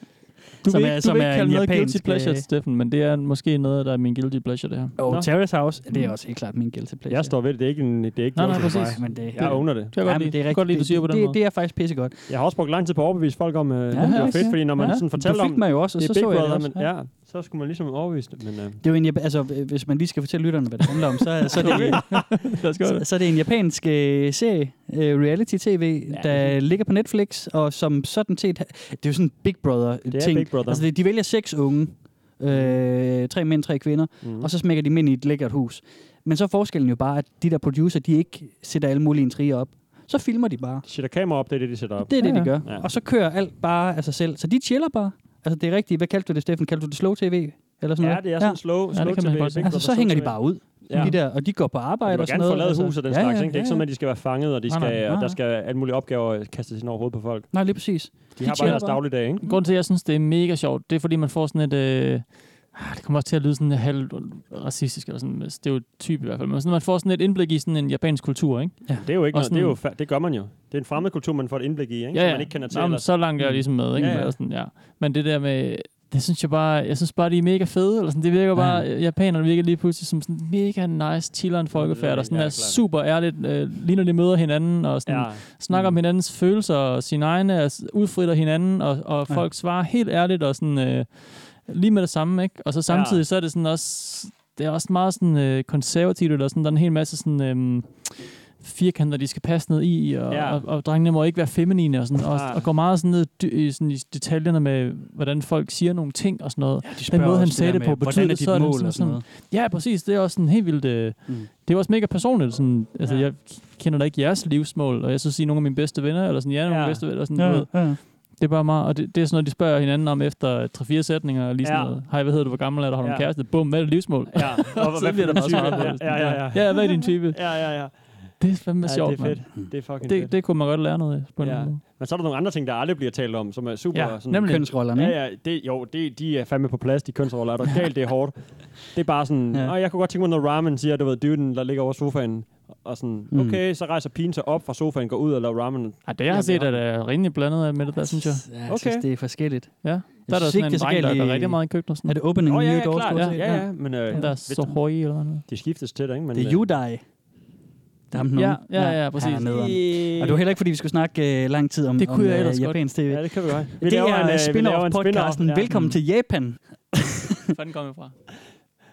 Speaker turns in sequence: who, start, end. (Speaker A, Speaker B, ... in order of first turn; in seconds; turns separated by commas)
Speaker A: 0.6-2.5, Speaker B: 0.6-5.0, Speaker A: 5.0-7.4, Speaker C: 7.1-9.9, Speaker B: 8.3-11.4, Speaker A: 8.4-12.3, Speaker C: 12.3-18.8, Speaker A: 13.9-16.9, Speaker B: 14.0-15.0, Speaker A: 18.8-40.9, Speaker B: 21.5-23.1, Speaker C: 21.6-22.3, Speaker B: 26.2-26.5, Speaker C: 30.1-30.8, Speaker C: 32.5-32.8, Speaker C: 34.2-34.5, Speaker C: 40.8-42.9, Speaker A: 42.0-48.9, Speaker B: 42.2-42.5, Speaker C: 48.0-51.3, Speaker B: 48.9-49.7, Speaker A: 49.6-53.9, Speaker B: 50.9-51.2, Speaker C: 52.0-57.6, Speaker B: 54.7-55.0, Speaker A: 55.0-55.4, Speaker A: 57.5-59.5, Speaker C: 58.4-59.4, Speaker B: 58.4-69.8, Speaker C: 69.0-73.2, Speaker B: 72.1-131.8, Speaker A: 73.4-74.3, Speaker C: 73.9-74.4, Speaker A: 78.5-78.9, Speaker C: 81.7-82.8, Speaker C: 85.1-85.5, Speaker A: 85.7-86.0, Speaker C: 92.9-93.2, Speaker C: 100.3-100.6, Speaker C: 102.3-102.6, Speaker A: 106.8-109.2, Speaker C: 116.7-117.0, Speaker A: 117.3-118.0, Speaker C: 121.6-122.1, Speaker C: 123.0-123.5, Speaker C: 124.3-130.4, Speaker A: 125.4-126.4, Speaker C: 131.4-146.8, Speaker B: 133.9-134.7, Speaker A: 134.4-135.2, Speaker A: 143.3-143.6, Speaker B: 146.1-148.4, Speaker A: 147.9-154.7, Speaker C: 148.7-149.0, Speaker B: 149.8-152.2, Speaker C: 152.5-154.8, Speaker B: 153.1-155.4, Speaker C: 155.4-156.7, Speaker A: 156.3-157.1, Speaker A: 158.1-167.5, Speaker B: 158.3-159.8, Speaker C: 159.4-160.4, Speaker B: 162.0-162.8, Speaker C: 163.1-165.7, Speaker B: 165.7-166.0, Speaker B: 167.5-168.1